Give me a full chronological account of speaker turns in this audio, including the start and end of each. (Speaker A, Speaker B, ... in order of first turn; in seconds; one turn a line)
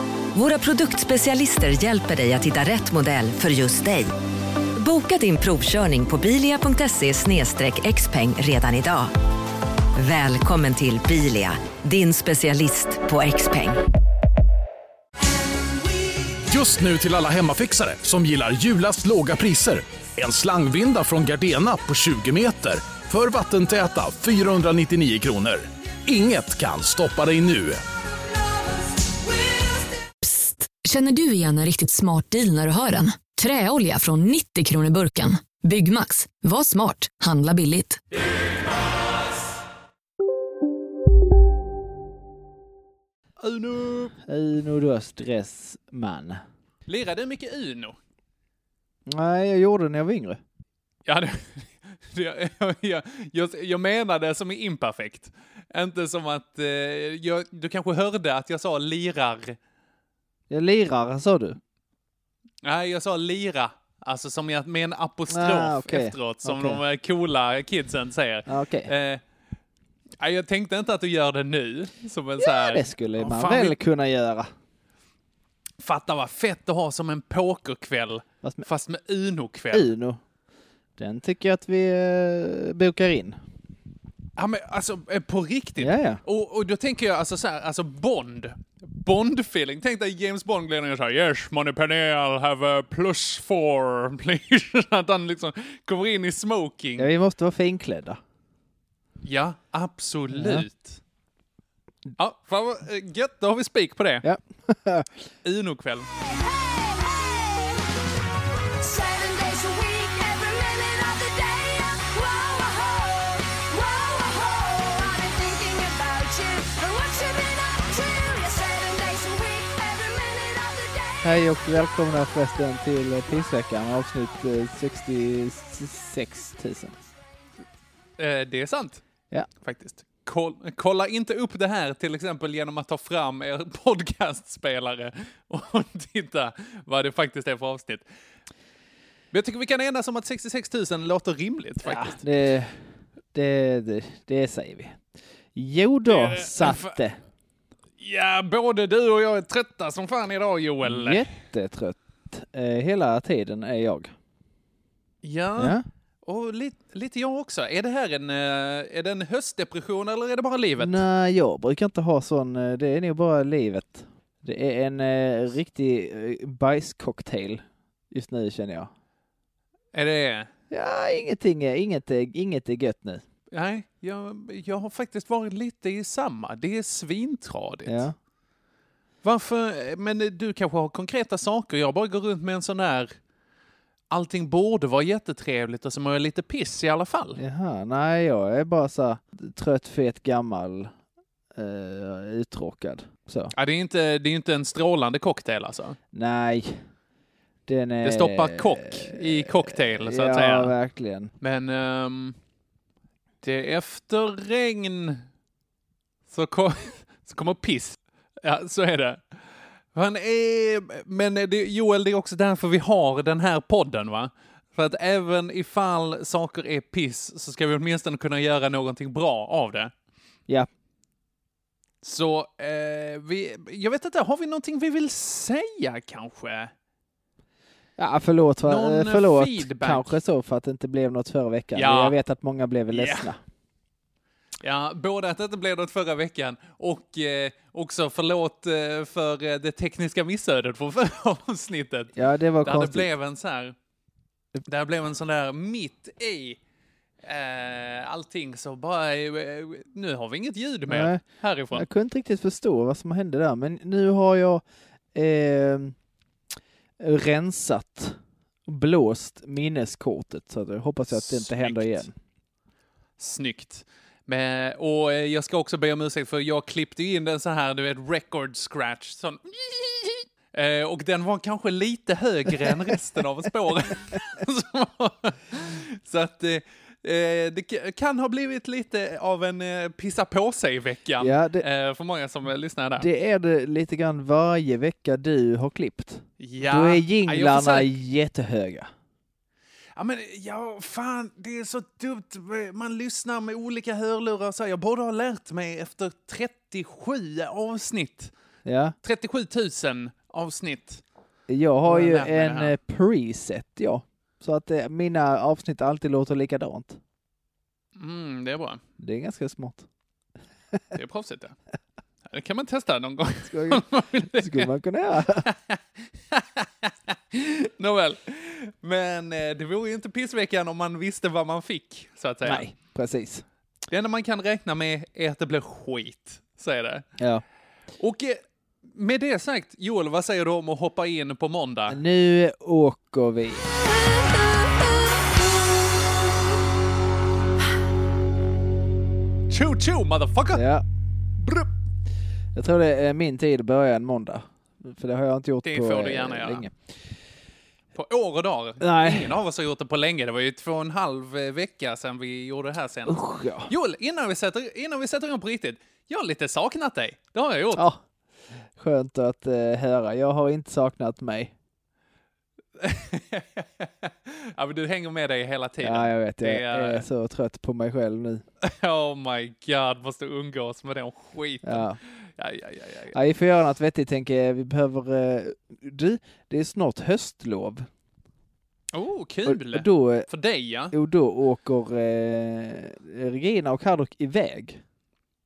Speaker A: 0.3-4.1
Speaker A: 4.8-9.1
Speaker A: 10.0-13.8
Speaker B: 16.5-27.8
Speaker C: 30.2-38.0
Speaker D: 43.4-44.1
Speaker E: 44.2-46.4
Speaker D: 46.9-48.0
Speaker E: 49.1-50.4
Speaker D: 51.1-59.6
Speaker E: 60.5-61.6
Speaker D: 62.6-69.2
Speaker E: 65.3-66.8
Speaker E: 68.5-68.9
Speaker D: 70.2-73.8
Speaker E: 72.4-74.5
Speaker D: 75.8-79.9
Speaker E: 79.7-80.2
Speaker E: 81.0-83.4
Speaker D: 84.4-97.1
Speaker E: 85.8-86.2
Speaker E: 97.0-98.2
Speaker D: 99.2-101.0
Speaker E: 100.3-100.7
Speaker D: 102.2-104.3
Speaker E: 104.2-105.1
Speaker D: 105.4-106.1
Speaker F: 106.2-107.8
Speaker F: 108.8-121.5
Speaker E: 121.2-127.0
Speaker D: 128.2-129.0
Speaker D: 129.6-138.0
Speaker D: 139.3-142.2
Speaker E: 141.8-142.8
Speaker E: 143.3-145.0
Speaker E: 145.6-147.2
Speaker D: 146.1-147.0
Speaker D: 148.0-151.2
Speaker E: 150.8-154.1
Speaker D: 155.2-161.0
Speaker E: 155.6-155.8
Speaker E: 160.8-168.9
Speaker D: 169.9-170.5
Speaker E: 170.7-173.2
Speaker D: 173.5-178.1
Speaker E: 177.9-178.2
Speaker D: 179.2-183.2
Speaker D: 184.1-187.4
Speaker E: 187.4-190.9
Speaker E: 191.5-193.5
Speaker D: 193.5-196.0
Speaker E: 196.1-196.8
Speaker E: 197.7-201.3
Speaker D: 198.0-200.8
Speaker D: 201.4-202.4
Speaker D: 203.4-205.3
Speaker D: 206.3-209.2
Speaker D: 209.9-219.9
Speaker D: 222.0-226.7
Speaker E: 228.0-233.4
Speaker D: 228.6-230.2
Speaker D: 231.7-232.2
Speaker D: 232.9-233.3
Speaker D: 234.6-243.8
Speaker E: 242.2-243.1
Speaker D: 244.7-246.6
Speaker D: 247.2-251.9
Speaker E: 250.9-251.2
Speaker E: 251.7-256.0
Speaker E: 257.0-262.1
Speaker D: 261.1-262.1
Speaker D: 263.2-283.1
Speaker E: 281.2-281.6
Speaker E: 283.0-288.9
Speaker D: 286.4-287.9
Speaker D: 290.0-298.3
Speaker E: 298.6-299.0
Speaker D: 299.0-301.0
Speaker E: 301.5-307.0
Speaker D: 301.8-302.7
Speaker D: 308.0-308.8
Speaker E: 309.0-309.9
Speaker D: 310.9-311.6
Speaker D: 312.3-314.7
Speaker E: 313.5-315.5
Speaker D: 315.4-322.7
Speaker E: 322.4-323.4
Speaker D: 323.9-327.1
Speaker E: 327.2-327.4
Speaker D: 328.0-332.0
Speaker E: 331.9-333.7
Speaker D: 339.5-340.7
Speaker E: 340.5-340.8
Speaker D: 341.4-341.7
Speaker E: 342.6-346.8
Speaker D: 345.6-346.6
Speaker D: 347.9-357.9
Speaker E: 348.8-349.3
Speaker E: 353.1-353.7
Speaker E: 357.8-358.0
Speaker E: 358.8-361.5
Speaker D: 362.8-367.1
Speaker E: 365.8-368.4
Speaker D: 368.6-373.2
Speaker E: 371.6-372.0
Speaker E: 373.1-377.9
Speaker D: 378.9-380.9
Speaker E: 379.5-380.3
Speaker E: 380.9-384.8